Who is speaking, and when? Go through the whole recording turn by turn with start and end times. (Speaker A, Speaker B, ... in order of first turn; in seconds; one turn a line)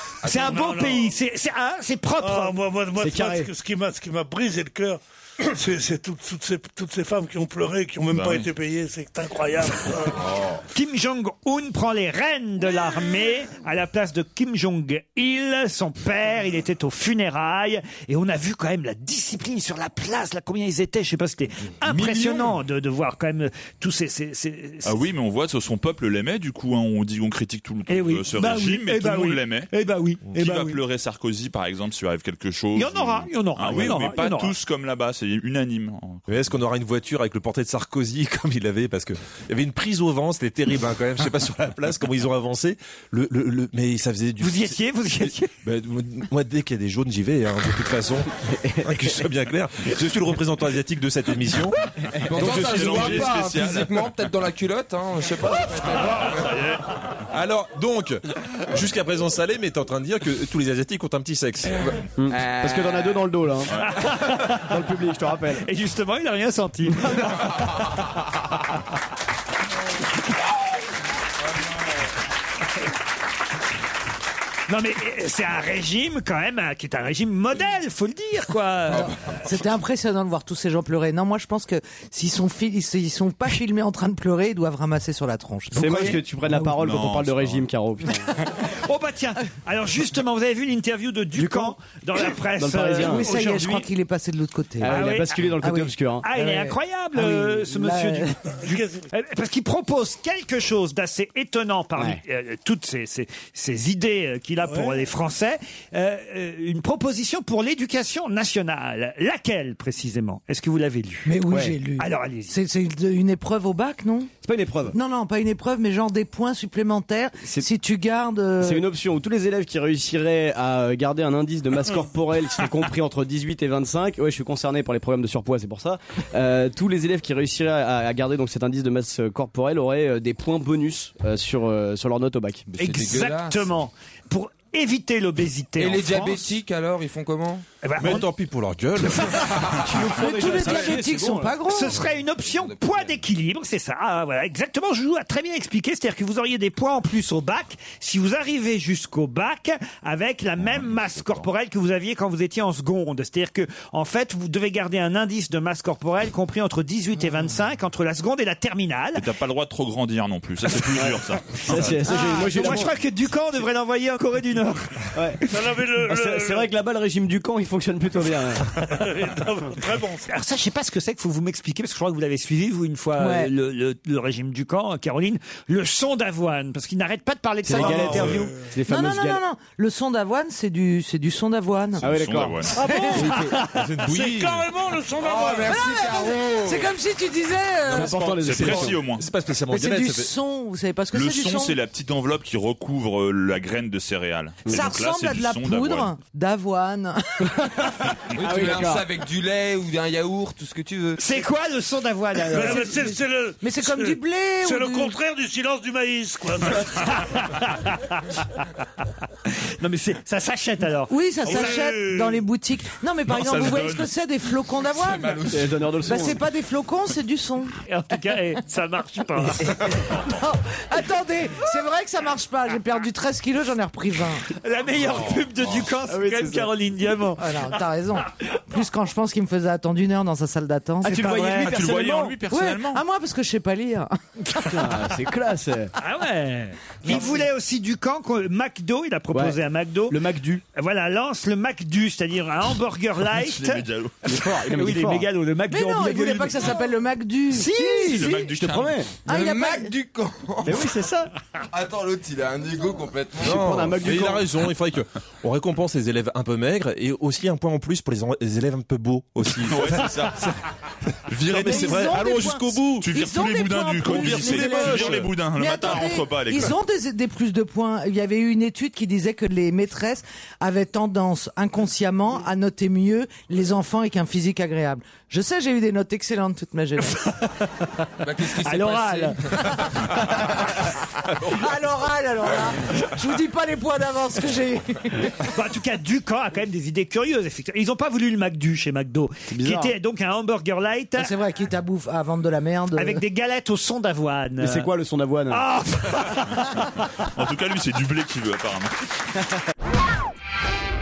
Speaker A: 0.2-2.6
Speaker B: 0.2-1.1
Speaker B: 2.2-10.2
Speaker C: 3.0-3.5
Speaker D: 8.1-8.5
Speaker E: 10.2-10.6
Speaker A: 10.7-25.0
Speaker D: 24.8-29.7
Speaker A: 27.9-30.8
Speaker D: 30.3-36.2
Speaker A: 32.7-34.5
Speaker F: 36.3-51.8
Speaker A: 44.4-45.5
Speaker C: 48.6-49.1
Speaker E: 52.3-56.6
Speaker D: 52.3-54.1
Speaker F: 52.4-53.4
Speaker D: 56.1-57.0
Speaker F: 57.3-61.8
Speaker E: 61.8-63.2
Speaker C: 62.2-63.8
Speaker A: 63.8-64.7
Speaker C: 64.5-65.6
Speaker A: 65.6-67.5
Speaker A: 74.7-79.1
Speaker E: 78.9-79.3
Speaker G: 79.4-86.6
Speaker C: 85.7-88.2
Speaker A: 85.8-86.2
Speaker D: 86.6-87.7
Speaker A: 88.8-93.9
Speaker C: 91.3-91.7
Speaker C: 92.5-93.4
Speaker G: 93.0-95.0
Speaker C: 94.8-96.3
Speaker A: 94.8-95.5
Speaker G: 95.6-98.4
Speaker A: 96.2-111.3
Speaker B: 98.5-99.1
Speaker B: 104.6-105.0
Speaker G: 111.2-114.3
Speaker C: 111.5-111.8
Speaker A: 112.0-112.5
Speaker C: 114.4-115.0
Speaker G: 114.9-118.8
Speaker C: 117.4-117.7
Speaker C: 118.6-132.7
Speaker E: 132.7-133.7
Speaker A: 132.8-136.5
Speaker E: 135.8-137.6
Speaker A: 137.8-138.3
Speaker F: 138.0-139.8
Speaker C: 139.4-141.6
Speaker G: 140.2-142.0
Speaker A: 141.7-159.2
Speaker E: 142.4-143.2
Speaker D: 150.7-151.4
Speaker D: 159.2-162.1
Speaker C: 160.9-162.9
Speaker A: 162.1-165.1
Speaker C: 165.1-165.4
Speaker B: 165.5-166.7
Speaker C: 166.1-168.8
Speaker B: 168.8-170.3
Speaker A: 170.3-178.5
Speaker G: 173.2-173.5
Speaker C: 177.6-179.4
Speaker B: 177.8-178.7
Speaker G: 178.9-182.0
Speaker D: 182.0-182.8
Speaker C: 182.0-183.6
Speaker B: 182.8-183.3
Speaker G: 182.9-183.2
Speaker A: 183.0-183.8
Speaker F: 183.7-184.7
Speaker B: 184.0-185.8
Speaker E: 185.2-186.9
Speaker G: 185.7-188.7
Speaker F: 187.9-190.3
Speaker C: 187.9-189.1
Speaker D: 188.3-189.3
Speaker G: 189.7-191.8
Speaker D: 191.1-196.1
Speaker G: 194.7-197.8
Speaker E: 198.3-201.4
Speaker C: 198.4-199.0
Speaker A: 201.2-202.9
Speaker B: 202.5-207.3
Speaker G: 202.6-203.0
Speaker G: 203.6-205.1
Speaker A: 207.1-208.6
Speaker A: 209.5-211.7
Speaker G: 211.1-215.4
Speaker B: 211.4-212.4
Speaker D: 213.3-214.1
Speaker E: 215.0-215.8
Speaker C: 215.5-216.4
Speaker G: 216.1-217.7
Speaker A: 217.8-219.9
Speaker G: 220.2-224.4
Speaker A: 224.5-227.6
Speaker C: 226.1-226.7
Speaker G: 227.4-231.8
Speaker C: 231.0-232.4
Speaker D: 231.5-233.0
Speaker G: 232.5-234.9
Speaker C: 234.7-235.9
Speaker A: 236.0-240.2
Speaker C: 237.1-237.4
Speaker C: 239.3-240.6
Speaker A: 240.7-246.8
Speaker D: 243.3-244.2
Speaker C: 244.2-245.3
Speaker G: 245.7-248.5
Speaker A: 247.5-248.2
Speaker C: 247.6-249.2
Speaker D: 248.1-249.0
Speaker G: 249.2-249.9
Speaker E: 249.3-250.9
Speaker C: 250.6-251.3
Speaker E: 251.7-253.8
Speaker C: 253.4-254.5
Speaker F: 253.4-260.4
Speaker D: 259.6-260.5
Speaker F: 261.3-263.1
Speaker G: 261.5-277.2
Speaker D: 261.5-262.0
Speaker D: 262.9-266.7
Speaker F: 264.0-265.3
Speaker A: 277.2-277.7
Speaker E: 278.2-280.3
Speaker A: 278.6-279.4
Speaker G: 281.4-285.4
Speaker A: 285.4-291.3
Speaker C: 289.5-289.9
Speaker G: 291.2-293.2
Speaker A: 292.9-294.9
Speaker C: 294.6-295.6
Speaker A: 295.5-296.7
Speaker D: 297.3-298.9